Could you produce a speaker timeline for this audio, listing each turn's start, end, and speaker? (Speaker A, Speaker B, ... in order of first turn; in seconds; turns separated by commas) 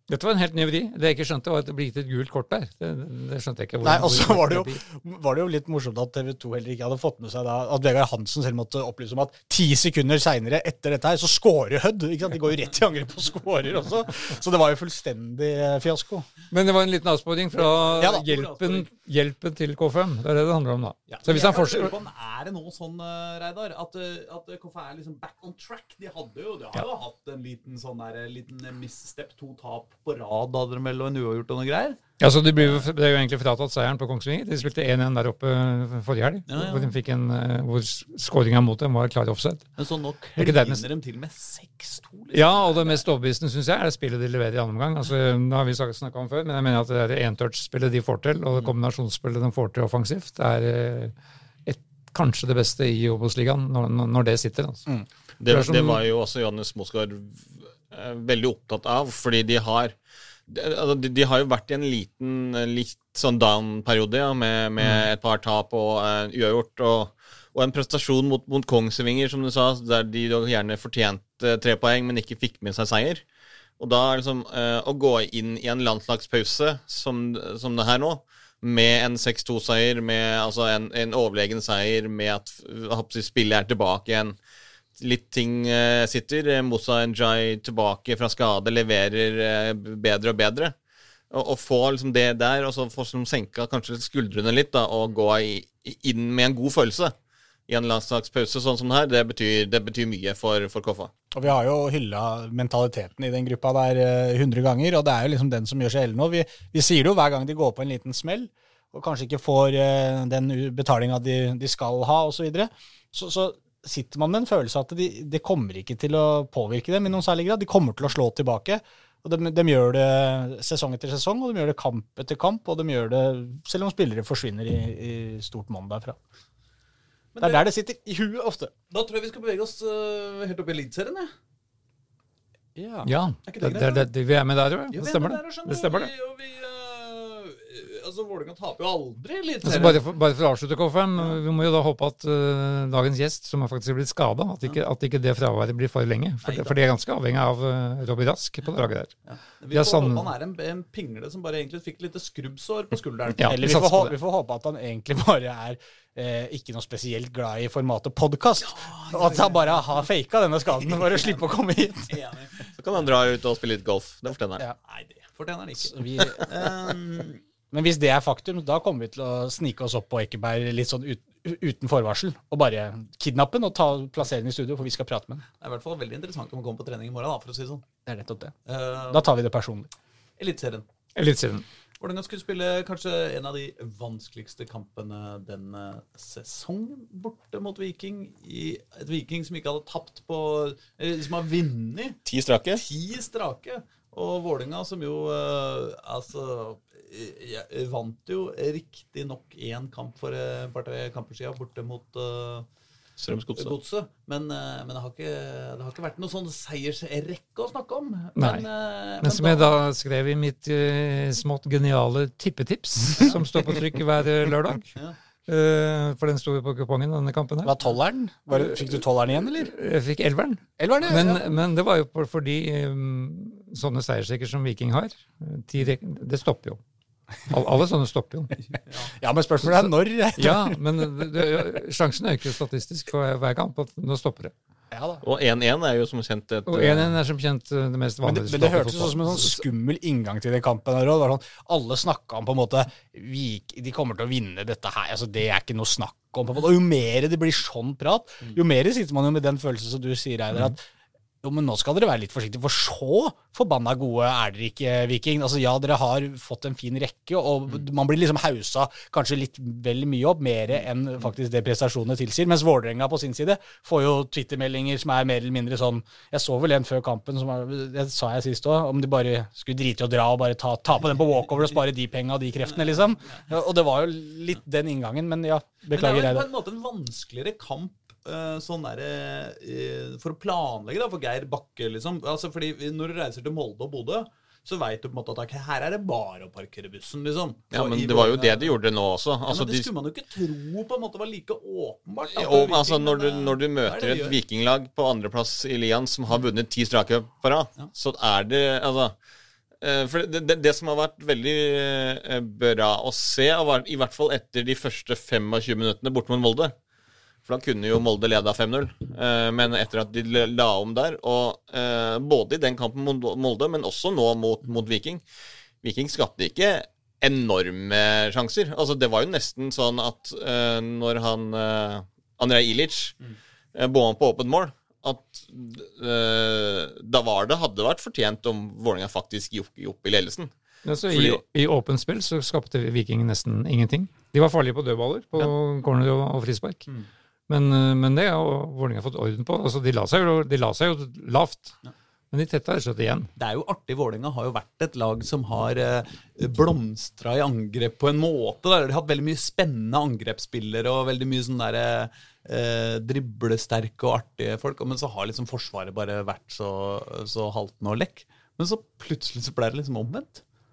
Speaker A: 0.1-4.8, Speaker B: 3.8-16.3, Speaker A: 16.5-21.9, Speaker C: 17.5-18.9, Speaker B: 18.0-18.2, Speaker C: 21.1-32.0, Speaker A: 32.2-39.7, Speaker C: 32.6-32.9, Speaker C: 36.5-37.0, Speaker C: 39.8-43.0, Speaker A: 40.4-40.9, Speaker A: 42.3-51.1, Speaker A: 51.7-54.8, Speaker D: 55.4-60.0, Speaker A: 55.5-56.0, Speaker D: 60.5-73.2, Speaker D: 73.8-84.4, Speaker D: 85.0-90.7, Speaker D: 91.3-97.1, Speaker D: 97.7-101.1, Speaker B: 101.3-126.2, Speaker C: 127.3-127.6, Speaker B: 127.4-128.7, Speaker C: 128.9-131.3, Speaker B: 132.8-133.1, Speaker A: 133.1-136.1, Speaker C: 133.5-134.1, Speaker C: 134.9-140.0, Speaker A: 139.6-149.1, Speaker C: 146.4-146.8, Speaker C: 149.3-153.6, Speaker A: 149.7-150.3, Speaker A: 153.4-154.2, Speaker B: 153.5-162.1, Speaker C: 158.6-160.1, Speaker C: 160.8-161.4, Speaker C: 162.1-163.1, Speaker D: 162.8-164.6, Speaker C: 164.8-167.4, Speaker B: 165.8-166.5, Speaker B: 167.7-175.4, Speaker C: 175.6-177.8, Speaker B: 178.1-178.5, Speaker C: 178.7-179.3, Speaker B: 179.1-179.9, Speaker C: 180.4-180.8, Speaker A: 181.2-181.7, Speaker C: 182.0-192.2, Speaker D: 192.3-192.8, Speaker C: 192.7-202.7, Speaker D: 203.2-203.7, Speaker C: 203.6-209.8, Speaker A: 208.4-208.7, Speaker A: 209.2-215.0, Speaker C: 213.2-213.4, Speaker A: 215.5-217.8, Speaker B: 217.6-219.7, Speaker A: 219.6-226.8, Speaker B: 220.8-221.4, Speaker A: 227.5-228.6, Speaker B: 229.1-230.8, Speaker A: 229.7-234.5, Speaker B: 234.9-235.2, Speaker D: 235.2-237.1, Speaker A: 236.7-239.6, Speaker B: 238.2-250.8, Speaker B: 251.4-276.5, Speaker C: 275.9-288.7, Speaker D: 287.7-289.9, Speaker C: 289.5-294.4, Speaker D: 292.3-299.1, Speaker D: 299.8-306.7, Speaker D: 307.5-315.2, Speaker D: 315.8-323.2, Speaker D: 323.8-330.5, Speaker A: 330.9-336.9, Speaker D: 331.1-331.4, Speaker A: 337.5-341.8, Speaker A: 342.3-343.3, Speaker C: 343.4-360.4